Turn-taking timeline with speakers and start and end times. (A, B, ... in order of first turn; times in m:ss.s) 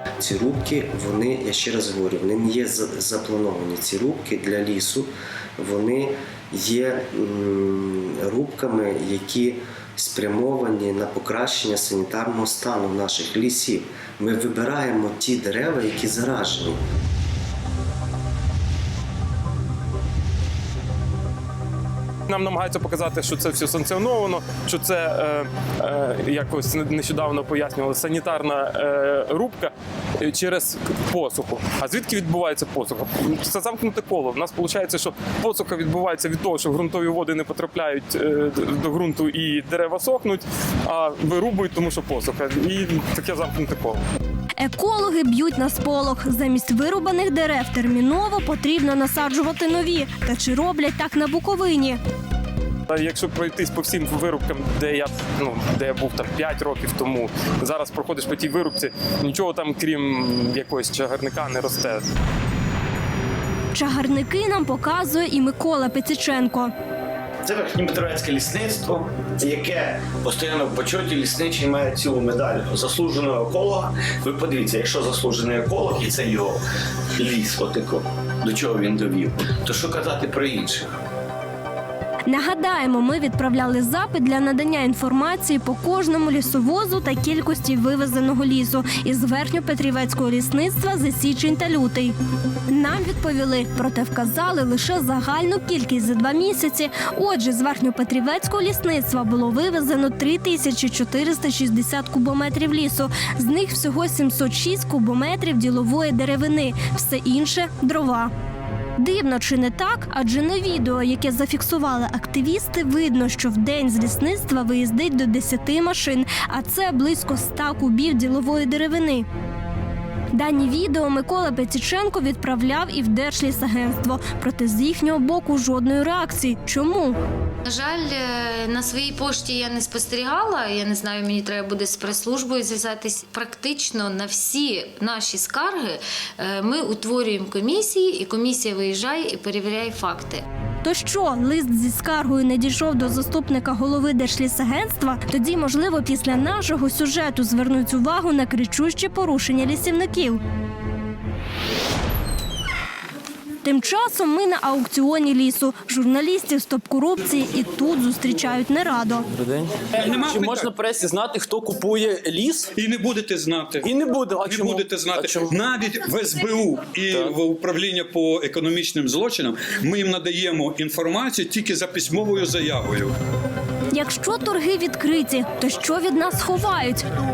0:00.2-0:16.8 A
0:22.3-0:44.0 B
0:44.6-0:52.0 C
0:52.9-1:02.0 B
1:03.7-1:06.7 C
1:07.4-1:16.6 D
1:17.2-1:21.0 D
1:22.3-1:32.2 C
1:32.7-1:48.3 C
1:49.0-1:59.3 C
2:00.3-2:07.2 C
2:07.6-2:20.4 E
2:20.8-2:30.4 C
2:33.6-2:39.2 C
2:39.8-2:42.7 F
2:39.9-2:40.7 G
2:42.7-2:53.1 G
2:43.8-2:45.6 F
2:47.1-2:47.4 F
2:53.9-2:57.1 C